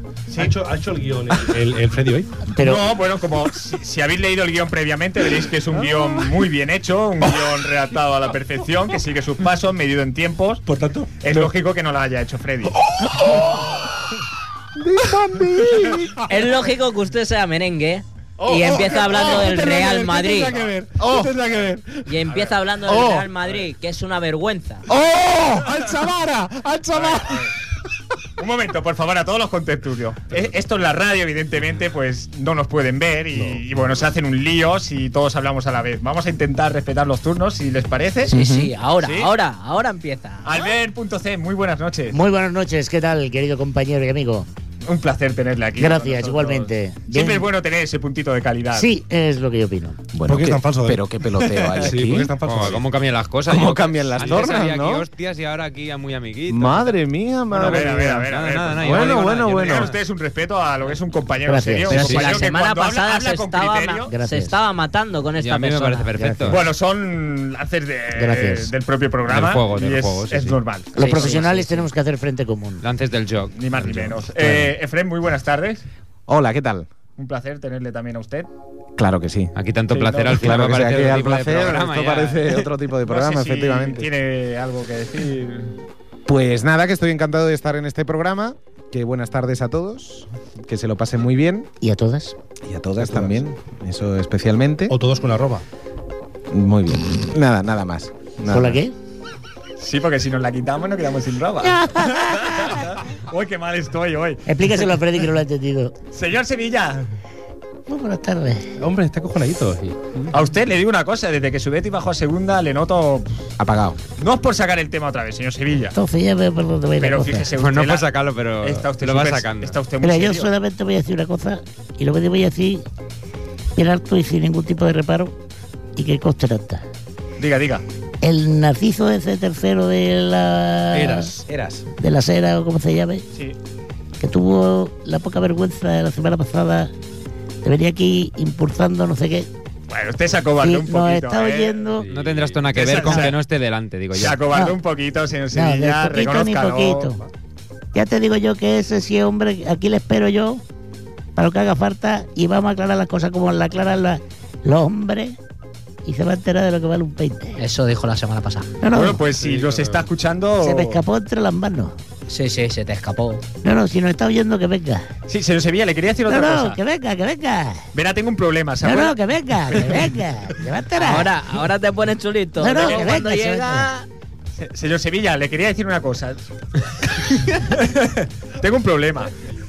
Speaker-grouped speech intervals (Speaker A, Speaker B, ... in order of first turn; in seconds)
Speaker A: 0.3-0.6, 2.6-10.7, 11.2-12.8, 22.2-22.6, 26.9-27.5, 28.4-38.3, 39.0-39.3, 40.4-42.2, 44.8-48.9, 57.5-64.1, 66.5-71.3, 73.6-75.8, 77.2-78.5, 79.9-80.6, 82.5-85.7, 99.8-105.0, 106.1-107.1, 110.3-113.5, 114.2-116.0, 117.0-118.1, 118.6-120.5, 127.4-127.8, 139.9-143.4, 144.1-147.2, 158.9-161.0, 165.3-166.8, 167.9-169.2, 169.7-170.0, 172.8-173.1, 174.5-176.4, 177.0-179.3
Speaker B: 0.3-2.4, 5.9-6.3, 10.7-11.5, 12.7-13.9, 14.8-16.5, 18.4-22.1, 24.9-27.5, 50.3-52.9, 93.0-93.4, 94.9-95.6, 108.8-110.3, 130.9-131.7, 142.1-142.5, 159.4-160.1
Speaker C: 2.5-2.9, 42.1-44.5, 45.8-47.5, 48.7-50.0, 61.5-62.1, 64.1-64.5, 66.2-66.6, 68.1-68.7, 71.0-72.8, 91.8-92.3, 98.5-98.9, 101.6-102.9, 104.5-105.9, 107.9-108.7, 115.9-117.5, 120.0-122.8, 123.8-125.3, 126.0-126.8, 128.2-131.3, 132.0-133.2, 134.2-136.9, 137.6-139.5, 140.6-142.1, 143.0-143.3, 144.5-144.8, 145.5-147.2, 147.9-150.6, 151.3-155.4, 156.0-157.6, 158.8-159.2, 160.6-161.9, 163.6-165.1, 166.3-167.9, 168.8-171.3, 172.6-173.9
Speaker D: 16.3-20.6, 22.1-24.9, 38.3-40.7, 61.9-66.1, 71.0-71.9, 157.6-158.7, 162.3-163.4, 170.9-174.1
Speaker E: 21.0-21.3, 22.9-23.2, 38.3-38.7, 50.1-52.3, 53.5-55.1, 56.5-59.9, 76.3-76.9, 79.0-79.5, 80.2-84.1, 86.3-91.7, 92.6-95.0, 96.5-98.8, 113.6-114.0, 131.5-131.8
Speaker F: 52.4-57.0, 57.5-60.0, 61.9-62.3, 65.4-66.6, 69.3-70.6, 72.8-74.7, 79.5-82.6, 117.5-119.8, 142.1-144.4